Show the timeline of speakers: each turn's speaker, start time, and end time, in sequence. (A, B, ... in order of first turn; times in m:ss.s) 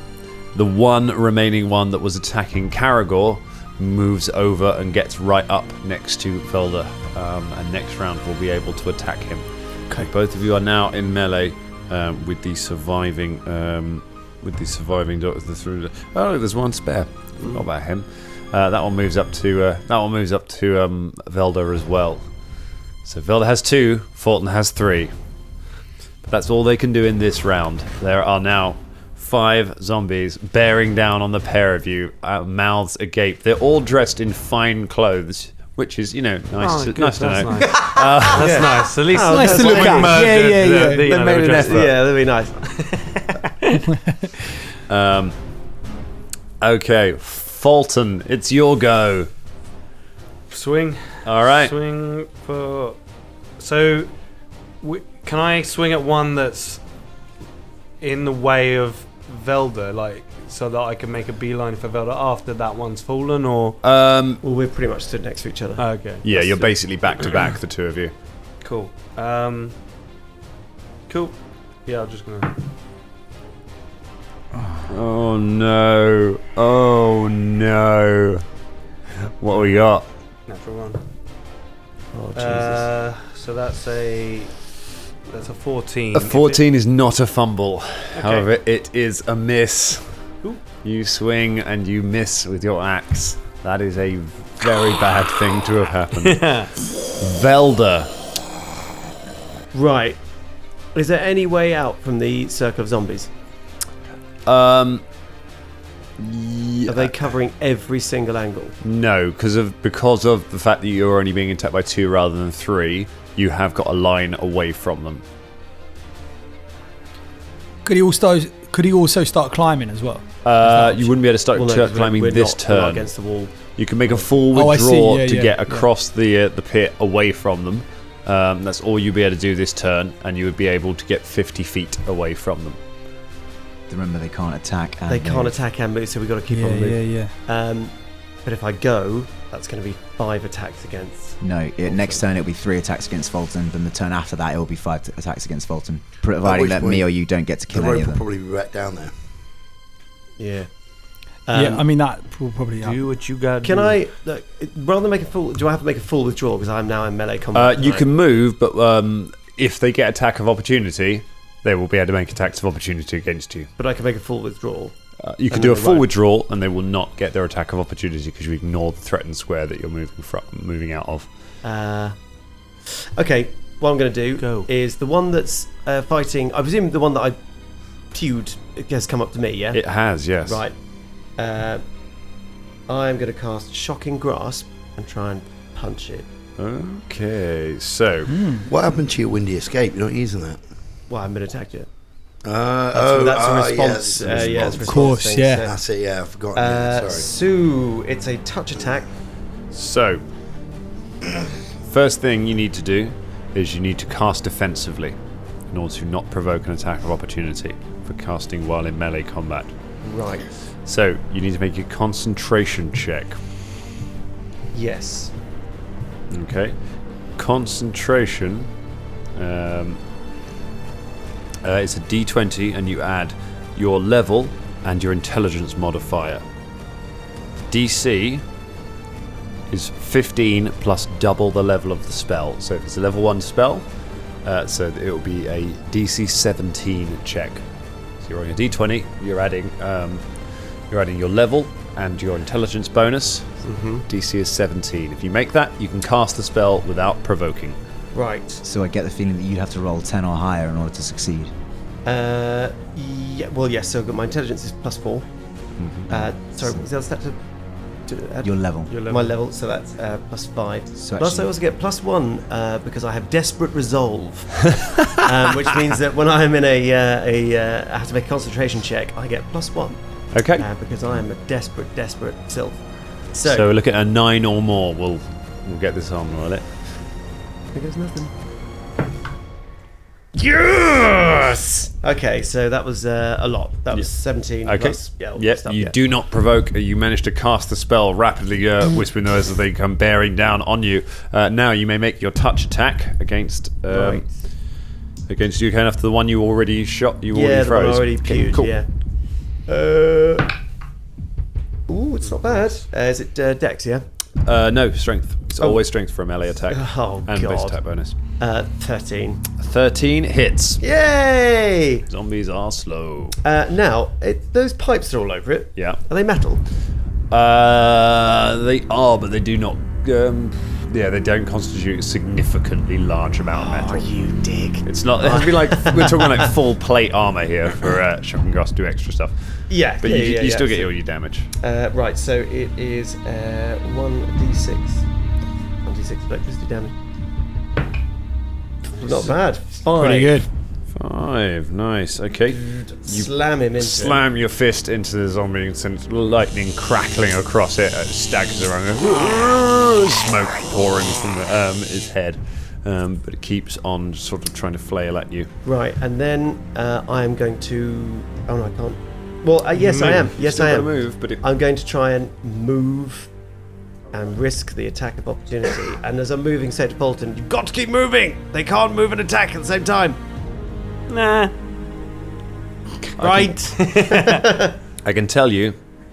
0:00.5-0:22.2 A
0:23.0-0:25.1 A
0:26.3-0:38.8 A
0:36.6-0:42.0 B
0:37.8-0:40.4 C
0:39.2-0:41.1 D
0:40.4-0:41.9 A
0:41.6-0:42.6 C
0:42.6-0:43.8 B
0:43.9-0:44.3 D
0:44.9-0:45.4 A
0:46.6-0:49.3 A
0:50.5-0:53.0 B
0:51.2-0:51.7 A
0:53.6-0:54.1 B
0:54.8-0:56.8 B
0:58.0-1:03.8 B
1:03.8-1:04.4 A
1:04.4-1:06.7 C
1:05.8-1:06.2 B
1:06.2-1:08.1 A
1:08.6-1:09.7 B
1:11.1-1:12.6 B
1:14.9-1:18.4 A
1:19.2-1:20.0 A
1:20.5-1:21.0 B
1:22.1-1:22.9 C
1:22.4-1:24.5 B
1:25.3-1:26.6 B
1:26.1-1:30.1 A
1:28.2-1:28.5 B
1:30.8-1:36.6 A
1:36.2-1:36.7 B
1:37.2-1:38.1 A
1:39.7-1:40.2 C
1:40.9-1:43.3 C
1:44.4-1:45.0 A
1:46.2-1:47.1 A
1:46.9-1:48.7 C
1:48.8-1:55.2 A
1:57.8-2:01.1 D
2:00.4-2:03.0 A
2:01.5-2:04.3 C
2:03.6-2:12.8 A
2:04.5-2:05.6 D
2:13.9-2:15.5 E
2:15.1-2:17.9 C
2:16.5-2:17.4 D
2:18.4-2:22.2 C
2:21.4-2:28.2 E
2:26.4-2:27.1 F
2:27.7-2:29.1 F
2:30.4-2:30.7 C
2:31.4-2:31.8 C
2:31.5-2:33.0 D
2:32.8-2:34.0 B
2:33.6-2:38.1 C
2:37.5-2:43.7 A
2:43.8-2:44.9 C
2:45.2-2:51.3 A
2:45.5-2:46.1 C
2:51.6-2:52.2 C
2:52.8-2:57.4 C
2:54.4-2:54.7 B
2:58.1-2:59.8 C
2:59.7-3:00.6 A
3:00.4-3:00.8 C
3:01.4-3:01.8 C
3:02.9-3:06.3 C
3:06.6-3:08.4 A
3:08.3-3:08.7 D
3:08.6-3:10.6 F
3:11.1-3:11.9 C
3:12.4-3:17.3 F
3:12.9-3:15.8 C
3:14.8-3:15.6 D
3:16.5-3:19.1 C
3:19.7-3:20.2 A
3:21.9-3:25.2 A
3:25.7-3:29.7 A
3:30.0-3:30.5 C
3:30.8-3:33.4 A
3:34.7-3:35.3 C
3:36.3-3:36.8 A
3:37.4-3:38.7 A
3:39.3-3:40.0 A
3:41.6-3:46.4 A
3:47.7-3:48.4 A
3:49.7-3:53.9 A
3:54.4-3:57.6 A
3:58.2-4:00.3 A
4:00.9-4:03.5 A
4:03.6-4:04.0 C
4:04.1-4:07.8 A
4:08.1-4:08.6 C
4:08.6-4:11.5 E
4:12.0-4:15.2 C
4:15.8-4:16.1 A
4:16.1-4:17.4 C
4:16.2-4:16.8 E
4:18.1-4:18.5 C
4:18.4-4:18.9 E
4:18.9-4:19.3 B
4:19.0-4:30.0 C
4:21.0-4:21.5 E
4:24.7-4:25.2 A
4:30.3-4:30.7 A
4:30.5-4:32.8 C
4:33.3-4:33.7 C
4:33.4-4:36.7 A
4:37.7-4:38.3 C
4:40.3-4:46.0 C
4:44.6-4:54.2 A
4:53.9-4:54.3 C
4:55.3-4:58.7 A
4:57.3-4:58.9 C
4:59.7-5:00.5 C
5:01.9-5:04.0 C
5:02.3-5:02.6 B
5:04.4-5:08.2 A
5:06.7-5:07.8 C
5:08.4-5:09.4 C
5:09.6-5:10.8 A
5:10.8-5:12.0 C
5:12.1-5:13.4 A
5:13.4-5:16.6 C
5:15.8-5:16.0 A
5:17.3-5:24.1 A
5:23.5-5:26.5 C
5:24.8-5:29.3 A
5:29.7-5:30.9 C
5:30.0-5:31.5 A
5:31.6-5:35.0 C
5:35.8-5:36.9 C
5:38.9-5:40.4 C
5:40.0-5:40.4 D
5:40.9-5:55.5 A
5:42.5-5:44.2 C
5:55.6-6:03.3 C
5:59.7-6:01.4 A
6:04.1-6:10.2 C
6:11.1-6:11.5 B
6:13.2-6:14.8 C
6:13.2-6:13.4 A
6:13.2-6:14.5 B
6:15.0-6:15.9 A